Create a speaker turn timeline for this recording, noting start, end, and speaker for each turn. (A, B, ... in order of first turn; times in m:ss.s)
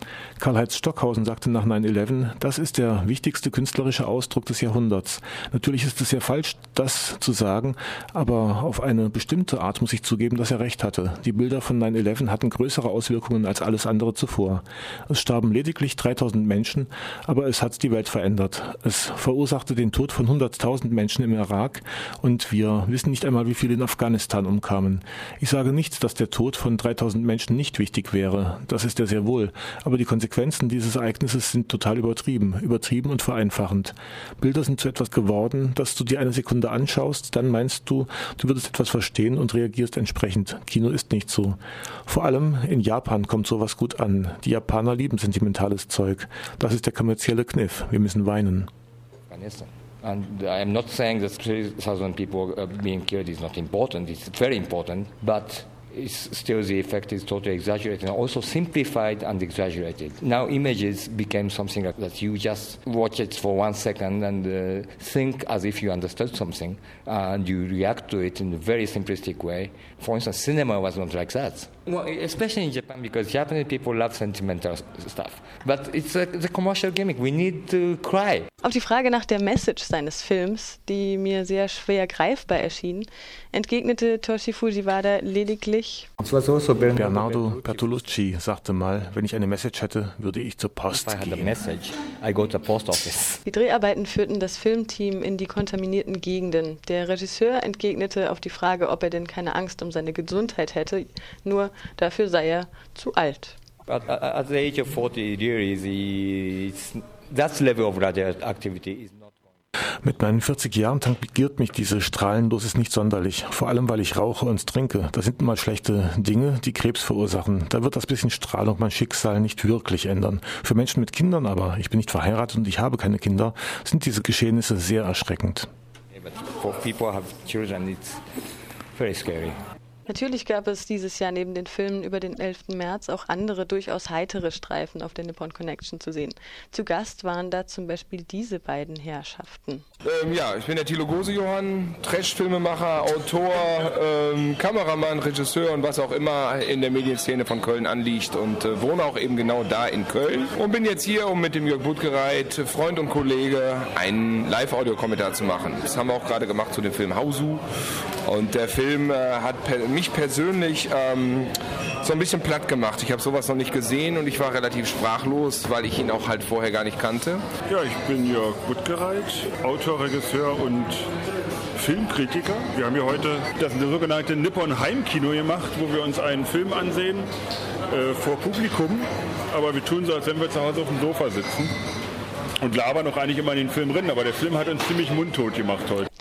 0:00.4-0:48.7 A
0:49.3-1:18.5 B
1:18.6-1:26.1 C
1:26.2-1:28.0 B
1:26.9-1:31.6 A
1:30.9-1:33.4 B
1:33.4-1:43.6 C
1:43.8-1:49.5 B
1:50.0-2:05.7 A
2:06.1-2:08.2 B
2:08.9-2:09.6 B
2:10.0-2:19.8 C
2:20.0-2:37.6 D
2:38.2-2:41.5 D
2:42.0-2:47.4 D
2:52.7-2:57.2 E
2:58.0-2:58.9 E
2:59.6-2:59.8 E
3:00.9-3:01.6 E
3:02.7-3:03.1 E
3:05.5-3:05.8 E